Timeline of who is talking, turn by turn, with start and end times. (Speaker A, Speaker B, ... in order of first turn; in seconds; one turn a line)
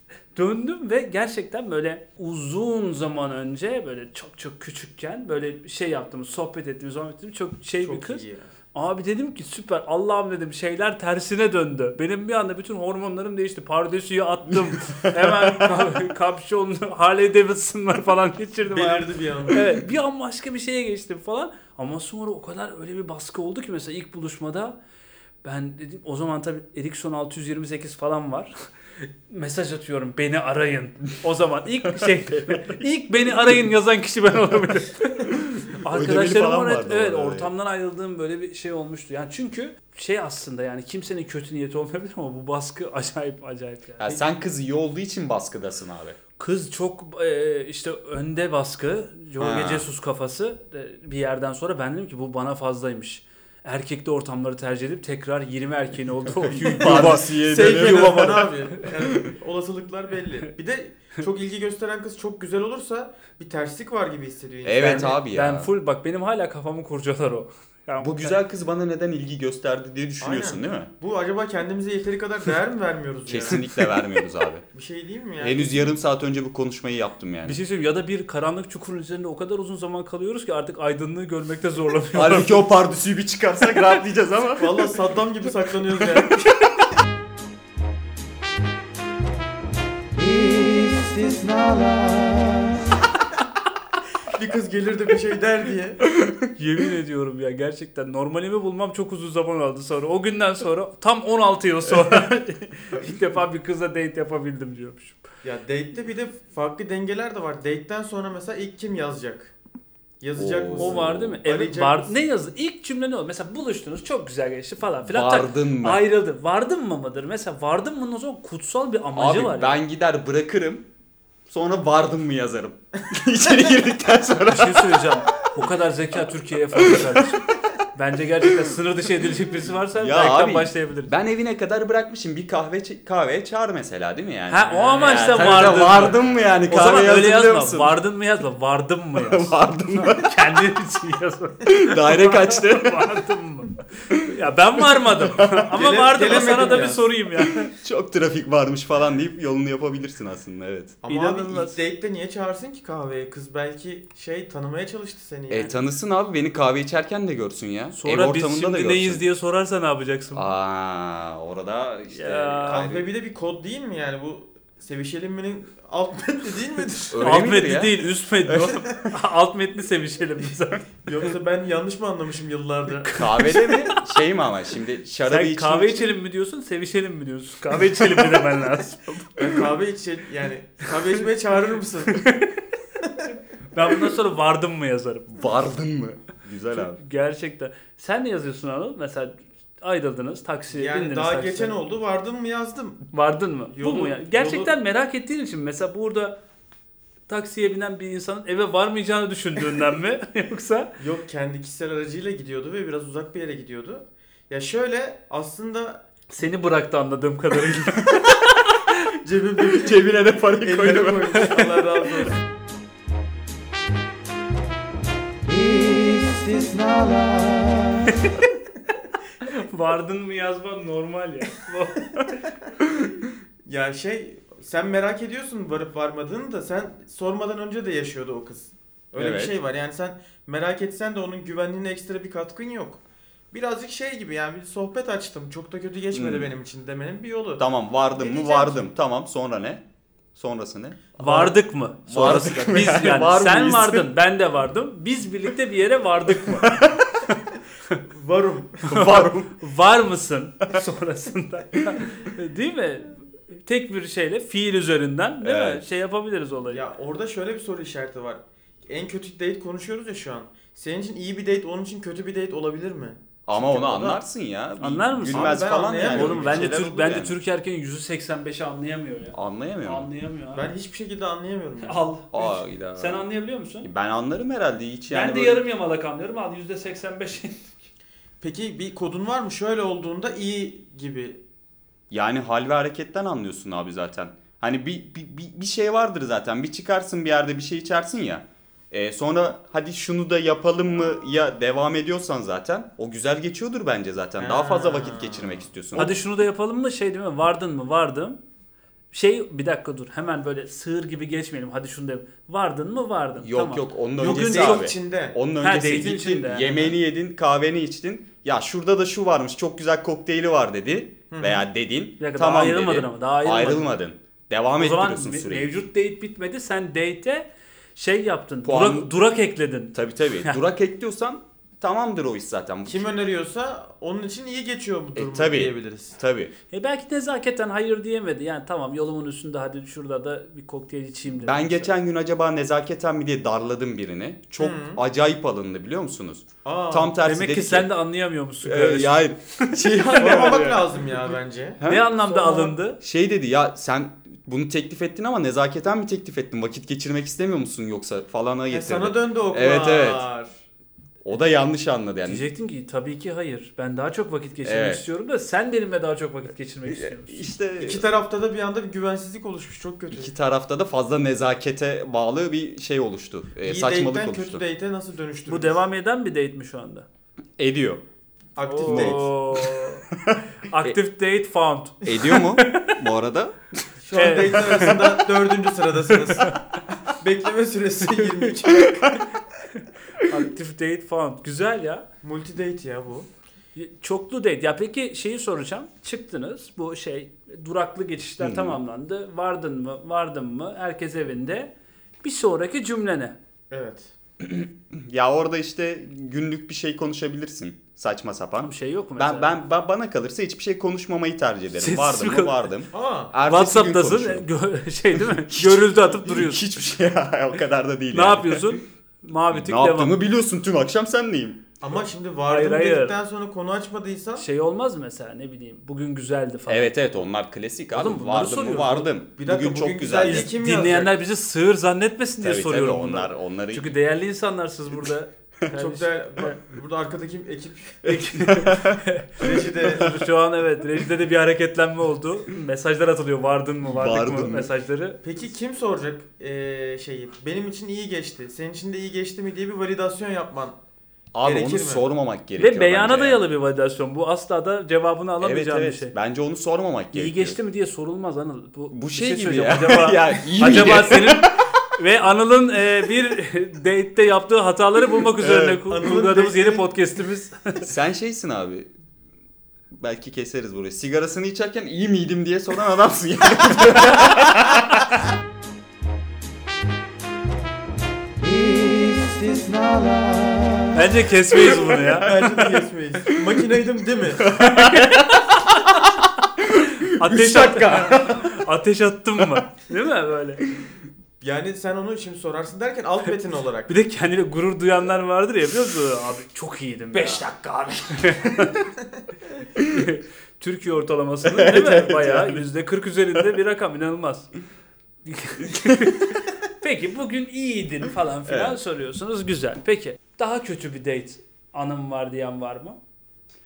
Speaker A: 0.3-24.8
Speaker B: 7.8-8.5
Speaker C: 14.9-15.8
Speaker B: 18.7-19.7
Speaker A: 25.4-44.1
Speaker C: 35.7-37.5
Speaker C: 44.0-46.2
Speaker A: 46.4-57.3
Speaker C: 49.4-49.9
Speaker C: 56.5-58.5
Speaker B: 56.8-65.2
Speaker C: 64.6-65.7
Speaker A: 65.2-68.4
Speaker C: 68.0-70.9
Speaker B: 70.2-73.7
Speaker C: 73.3-74.6
Speaker B: 74.7-75.9
Speaker C: 75.4-77.6
Speaker A: 77.5-82.7
Speaker C: 82.1-84.9
Speaker B: 84.6-86.5
Speaker B: 90.7-92.7
Speaker B: 94.3-96.0
Speaker A: 96.6-105.2
Speaker B: 105.4-109.5
Speaker B: 110.2-112.2
Speaker C: 110.4-111.4
Speaker A: 110.8-119.8
Speaker C: 115.0-116.0
Speaker C: 119.2-120.9
Speaker C: 121.5-125.2
Speaker A: 124.5-131.2
Speaker C: 126.8-127.2
Speaker C: 129.9-138.0
Speaker A: 134.5-147.7
Speaker C: 139.2-140.5
Speaker C: 141.7-143.2
Speaker C: 145.2-145.6
Speaker B: 145.7-147.0
Speaker C: 147.7-151.0
Speaker B: 151.0-155.8
Speaker A: 151.1-151.8
Speaker C: 155.5-159.2
Speaker A: 157.9-160.5
Speaker C: 160.3-163.1
Speaker A: 162.1-162.9
Speaker B: 162.7-167.3
Speaker C: 167.1-168.7
Speaker A: 167.2-170.9
Speaker B: 171.1-173.1
Speaker A: 173.0-174.0
Speaker C: 173.2-176.1
Speaker A: 175.3-179.3
Speaker B: 179.4-182.3
Speaker A: 182.2-182.5
Speaker A: 183.7-185.3
Speaker C: 185.3-187.0
Speaker A: 186.8-191.8
Speaker B: 190.7-193.1
Speaker A: 193.1-196.4
Speaker B: 193.7-194.7
Speaker A: 197.3-200.9
Speaker B: 201.0-206.0
Speaker A: 206.3-208.8
Speaker B: 209.2-212.4
Speaker C: 209.7-211.6
Speaker B: 215.5-218.1
Speaker A: 219.4-222.4
Speaker B: 223.7-238.9
Speaker C: 229.2-229.6
Speaker C: 236.1-236.5
Speaker C: 237.6-239.8
Speaker C: 240.3-241.5
Speaker A: 241.2-246.8
Speaker C: 242.1-244.1
Speaker C: 246.5-246.9
Speaker B: 248.1-248.9
Speaker C: 248.9-249.5
Speaker A: 248.9-256.8
Speaker C: 255.4-255.9
Speaker B: 256.7-264.2
Speaker C: 263.5-267.4
Speaker A: 264.8-270.7
Speaker B: 265.3-266.9
Speaker C: 269.3-270.1
Speaker B: 270.5-272.0
Speaker A: 271.8-273.9
Speaker C: 272.3-273.3
Speaker C: 273.8-275.6
Speaker A: 275.1-277.8
Speaker B: 278.4-281.4
Speaker C: 282.1-296.1
Speaker B: 294.4-295.7
Speaker A: 295.9-298.4
Speaker A: 299.1-304.9
Speaker C: 303.4-315.7
Speaker B: 304.2-305.4
Speaker A: 305.6-306.9
Speaker B: 311.3-311.6
Speaker A: 312.2-313.9
Speaker A: 314.8-320.6
Speaker C: 318.6-319.1
Speaker C: 319.9-323.1
Speaker B: 322.9-326.2
Speaker C: 325.1-326.5
Speaker A: 326.7-331.9
Speaker C: 331.4-337.9
Speaker B: 334.6-335.0
Speaker B: 336.6-337.1
Speaker A: 337.2-340.8
Speaker C: 338.6-340.8
Speaker B: 340.1-342.7
Speaker C: 341.8-342.1
Speaker A: 341.9-343.0
Speaker C: 343.0-350.2
Speaker B: 348.7-350.5
Speaker C: 351.2-352.4
Speaker A: 352.2-357.4
Speaker C: 354.6-355.0
Speaker C: 356.9-358.1
Speaker B: 357.8-360.3
Speaker C: 360.1-364.6
Speaker B: 363.6-365.8
Speaker A: 365.5-367.1
Speaker C: 367.6-368.0
Speaker B: 368.6-369.3
Speaker A: 368.7-370.1
Speaker C: 368.9-371.0
Speaker A: 370.6-373.0
Speaker C: 372.0-373.6
Speaker B: 374.0-379.2
Speaker A: 374.1-375.0
Speaker A: 380.2-382.1
Speaker B: 382.2-383.3
Speaker A: 383.8-393.4
Speaker C: 388.4-388.8
Speaker B: 393.7-394.1
Speaker C: 394.4-404.5
Speaker A: 398.6-399.5
Speaker A: 401.8-402.7
Speaker B: 402.9-403.3
Speaker A: 403.5-406.7
Speaker C: 405.2-408.8
Speaker A: 408.1-410.1
Speaker C: 409.5-411.6
Speaker B: 411.8-414.5
Speaker A: 412.5-413.1
Speaker A: 414.4-416.9
Speaker C: 416.7-420.5
Speaker A: 417.9-419.1
Speaker B: 419.4-421.1
Speaker A: 420.2-426.6
Speaker C: 422.4-423.9
Speaker B: 425.7-428.2
Speaker A: 428.1-435.2
Speaker C: 428.3-429.0
Speaker B: 429.4-430.1
Speaker C: 433.9-434.7
Speaker B: 435.2-440.8
Speaker C: 441.3-443.4
Speaker B: 441.4-442.1
Speaker A: 442.6-446.1
Speaker C: 445.4-447.6
Speaker A: 447.1-457.9
Speaker C: 448.9-451.7
Speaker C: 455.4-455.8
Speaker B: 455.9-456.9
Speaker C: 457.8-458.9
Speaker C: 459.9-465.1
Speaker B: 468.7-470.9
Speaker A: 470.9-472.4
Speaker B: 472.0-474.6
Speaker C: 474.5-475.9
Speaker A: 474.5-476.0
Speaker C: 476.6-478.5
Speaker A: 477.1-480.6
Speaker B: 481.4-483.9
Speaker A: 483.9-487.5
Speaker C: 487.1-488.7
Speaker A: 488.2-488.8
Speaker C: 489.8-490.1
Speaker A: 489.9-494.5
Speaker C: 491.5-492.6
Speaker A: 495.2-503.0
Speaker C: 495.8-496.1
Speaker C: 498.5-498.8